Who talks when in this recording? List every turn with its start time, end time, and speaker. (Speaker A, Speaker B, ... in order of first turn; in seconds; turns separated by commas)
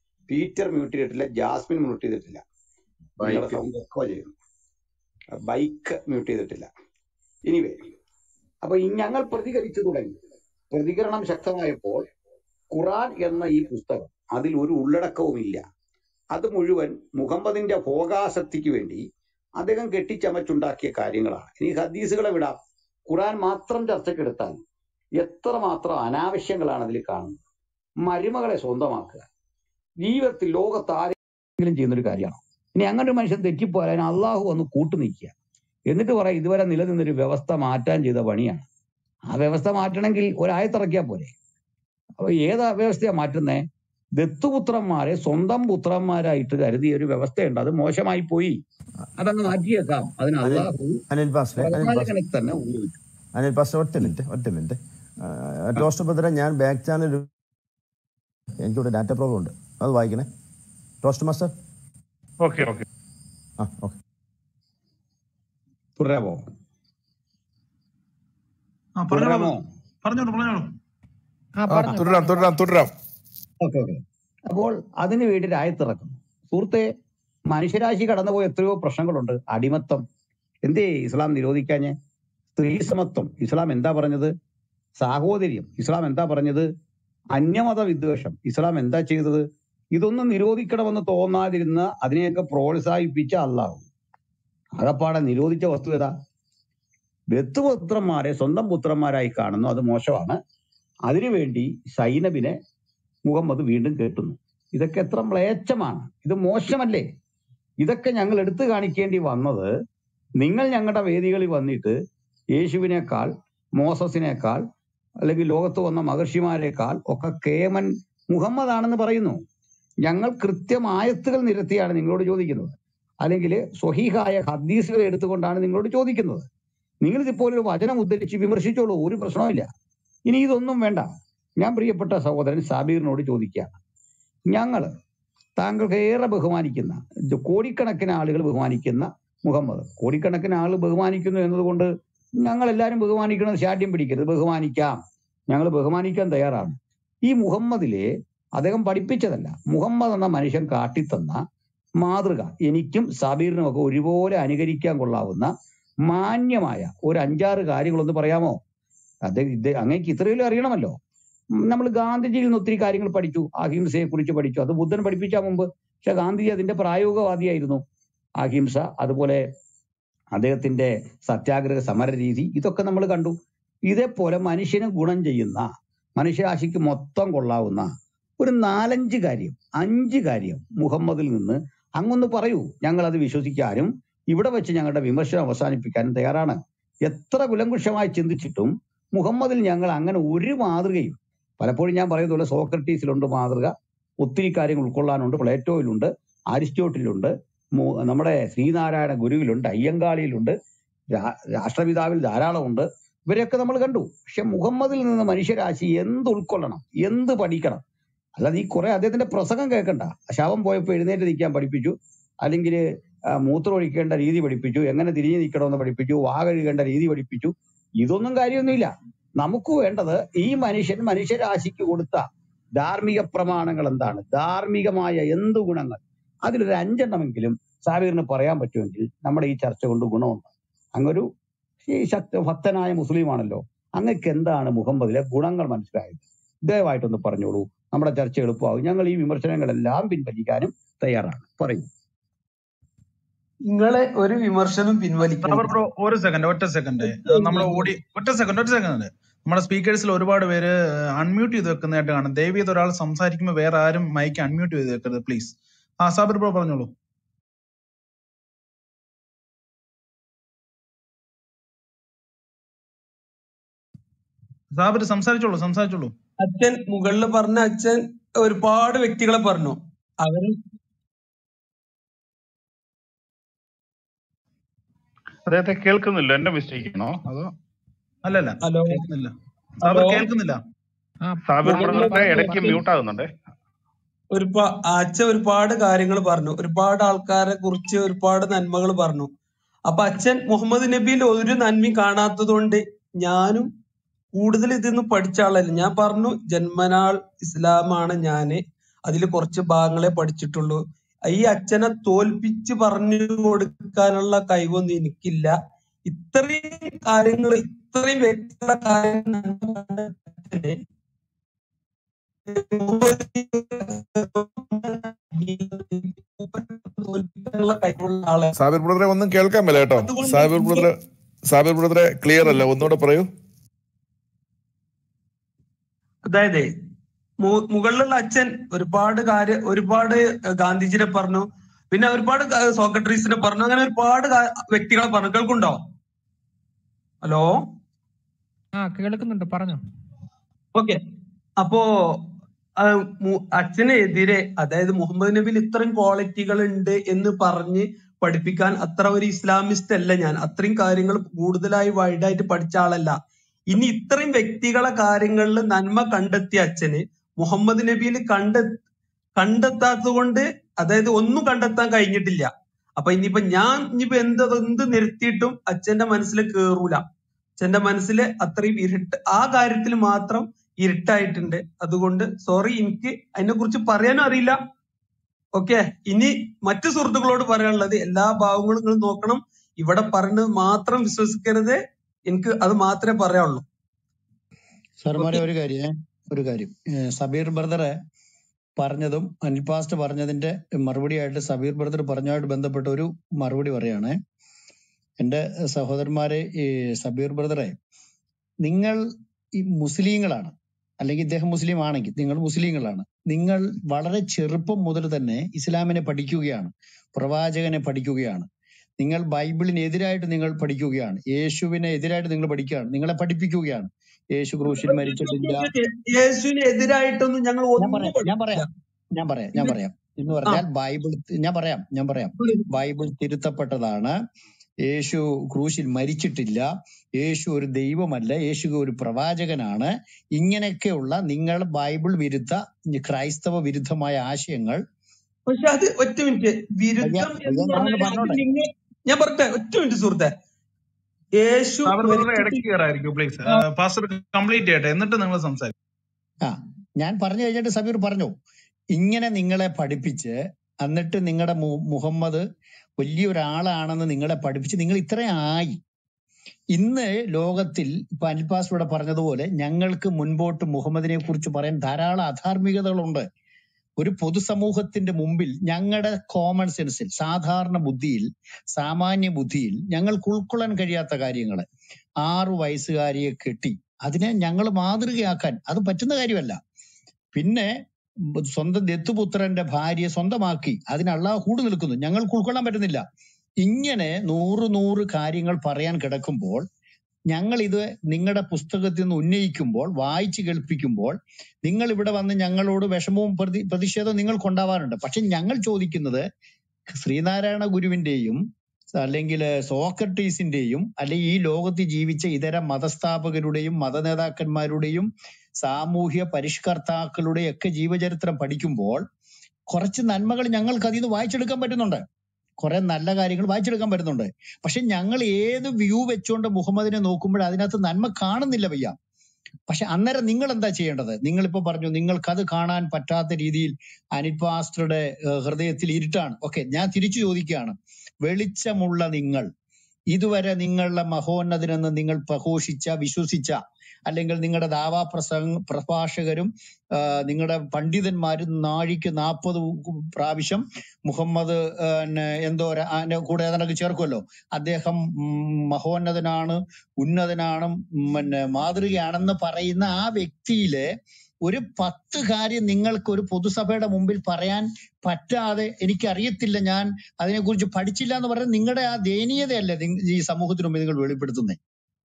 Speaker A: 0.3-2.4, Speaker A: 3.2-4.3, Speaker A: 5.4-6.7, Speaker A: 7.5-7.9, Speaker A: 8.6-12.1, Speaker A: 12.7-15.6, Speaker A: 16.3-19.0, Speaker A: 19.6-24.6, Speaker A: 25.2-27.4, Speaker A: 28.0-29.2, Speaker A: 30.0-35.3, Speaker A: 35.9-38.7, Speaker A: 39.3-41.3, Speaker A: 42.2-43.7, Speaker A: 44.2-48.6, Speaker A: 49.2-51.0, Speaker B: 50.4-52.1, Speaker A: 51.6-53.0, Speaker B: 53.4-57.3, Speaker B: 58.6-60.3, Speaker B: 61.0-61.5, Speaker C: 62.4-62.8, Speaker B: 63.6-64.0, Speaker A: 66.0-66.5, Speaker D: 69.0-70.7, Speaker A: 69.1-69.6, Speaker E: 71.6-72.5, Speaker F: 71.7-72.9, Speaker A: 73.6-76.9, Speaker A: 77.5-80.0, Speaker A: 80.7-82.0, Speaker A: 82.6-84.3, Speaker A: 85.0-86.7, Speaker A: 87.3-93.8, Speaker A: 94.8-96.2, Speaker A: 97.3-100.4, Speaker A: 101.1-102.6, Speaker A: 103.2-107.1, Speaker A: 107.8-109.7, Speaker A: 110.4-112.0, Speaker A: 112.6-114.6, Speaker A: 115.2-119.4, Speaker A: 120.0-126.5, Speaker A: 127.0-129.7, Speaker A: 130.3-133.8, Speaker A: 134.5-134.9, Speaker A: 135.6-141.9, Speaker A: 142.4-151.4, Speaker A: 152.0-155.5, Speaker A: 156.1-158.6, Speaker A: 159.3-161.0, Speaker A: 161.6-167.8, Speaker A: 168.4-169.5, Speaker A: 170.3-200.5, Speaker A: 201.1-207.8, Speaker A: 208.4-212.8, Speaker A: 213.4-222.2, Speaker A: 222.8-231.2, Speaker A: 231.8-241.9, Speaker G: 243.7-245.8, Speaker D: 245.4-256.9, Speaker G: 247.0-247.9, Speaker D: 264.7-266.1, Speaker G: 266.4-270.6, Speaker C: 275.5-277.2, Speaker D: 277.2-277.5, Speaker D: 278.2-279.3, Speaker G: 278.6-279.1, Speaker D: 279.8-280.6, Speaker G: 279.8-280.3, Speaker E: 281.2-282.6, Speaker C: 281.4-283.3, Speaker G: 281.6-282.8, Speaker G: 284.3-289.3, Speaker G: 289.9-293.7, Speaker G: 294.4-310.8, Speaker G: 312.5-318.5, Speaker F: 318.5-323.3, Speaker G: 320.0-320.9, Speaker G: 326.2-326.7, Speaker G: 327.4-335.8, Speaker G: 337.2-337.7, Speaker E: 338.7-339.8, Speaker G: 340.8-341.0, Speaker G: 341.6-342.2, Speaker G: 342.8-353.2, Speaker G: 353.7-358.8, Speaker G: 359.4-367.0, Speaker G: 367.6-374.6, Speaker G: 375.6-383.6, Speaker H: 385.0-388.0, Speaker G: 385.2-385.4, Speaker H: 388.8-394.2, Speaker H: 395.2-397.8, Speaker H: 398.6-399.1, Speaker H: 399.6-408.5, Speaker H: 409.0-415.7, Speaker G: 414.7-418.7, Speaker H: 417.8-424.1, Speaker G: 422.4-422.7, Speaker H: 424.9-434.8, Speaker G: 435.5-440.3, Speaker H: 437.0-438.4, Speaker G: 441.4-442.7, Speaker D: 441.9-445.7, Speaker H: 446.4-448.4, Speaker H: 448.9-452.5, Speaker H: 453.0-455.8, Speaker H: 456.7-463.3, Speaker H: 464.0-471.7, Speaker H: 472.2-476.6, Speaker H: 477.3-477.8, Speaker H: 478.5-483.0, Speaker H: 483.6-486.7, Speaker H: 487.3-496.2, Speaker H: 496.9-498.4, Speaker H: 499.0-509.1, Speaker H: 509.7-512.0, Speaker H: 512.6-519.0, Speaker H: 519.7-529.5, Speaker H: 530.1-561.6